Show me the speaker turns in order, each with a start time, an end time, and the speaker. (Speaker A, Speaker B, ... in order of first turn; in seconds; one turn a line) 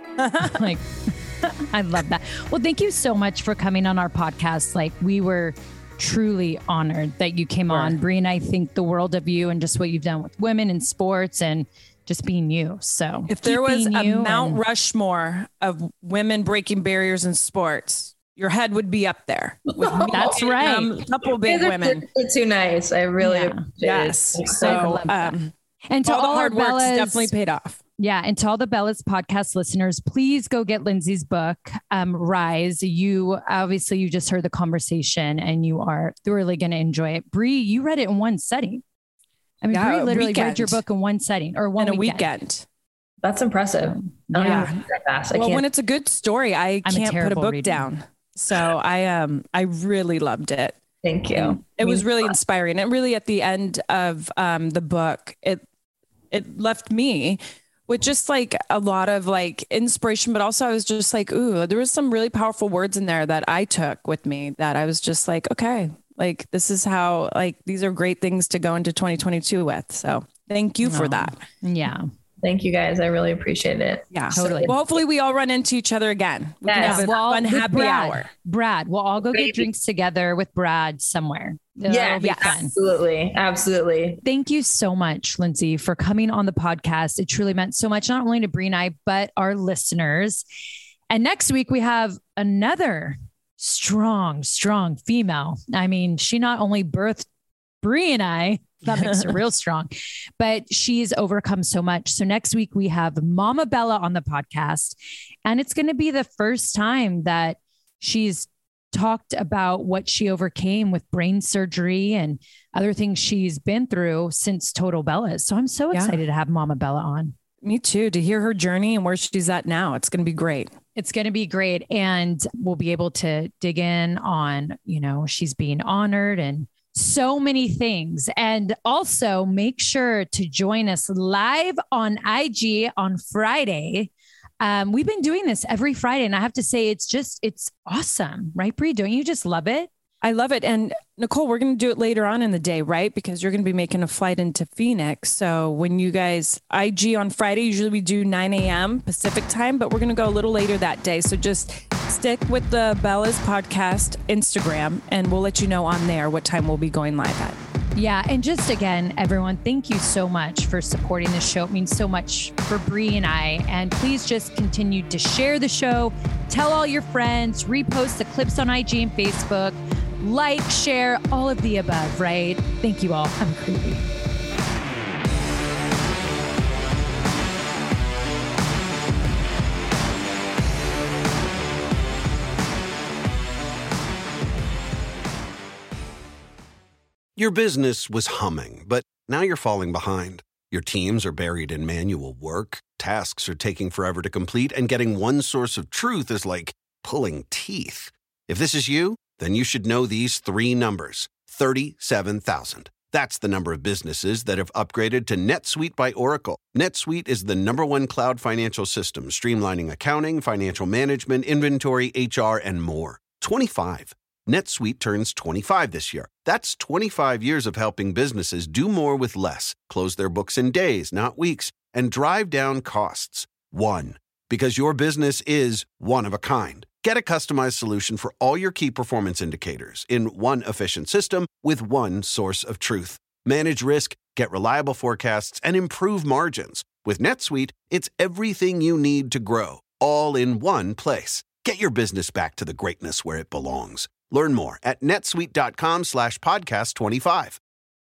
Speaker A: 0.2-0.7
Speaker B: 0.4-14.6
Speaker A: 7.7-8.0
Speaker A: 13.3-22.0
Speaker C: 19.8-24.9
Speaker B: 20.1-20.9
Speaker B: 23.2-23.6
Speaker A: 23.8-25.5
Speaker B: 24.6-25.4
Speaker B: 25.9-27.3
Speaker A: 26.1-27.8
Speaker B: 28.0-38.8
Speaker B: 39.6-42.3
Speaker A: 39.7-40.8
Speaker A: 41.8-42.6
Speaker C: 43.2-45.6
Speaker B: 44.0-44.7
Speaker A: 44.4-44.8
Speaker A: 45.3-50.8
Speaker B: 46.8-47.9
Speaker C: 51.0-52.3
Speaker A: 51.4-55.6
Speaker A: 56.3-71.4
Speaker B: 70.8-72.1
Speaker C: 72.4-74.8
Speaker A: 74.1-78.3
Speaker B: 74.3-74.7
Speaker C: 76.6-77.1
Speaker B: 76.8-82.7
Speaker C: 79.3-79.6
Speaker C: 81.8-84.2
Speaker B: 84.2-90.4
Speaker B: 91.1-97.3
Speaker B: 97.8-117.3
Speaker A: 117.6-120.7
Speaker B: 121.0-139.9
Speaker A: 140.2-157.6
Speaker B: 157.9-174.0
Speaker D: 187.4-247.6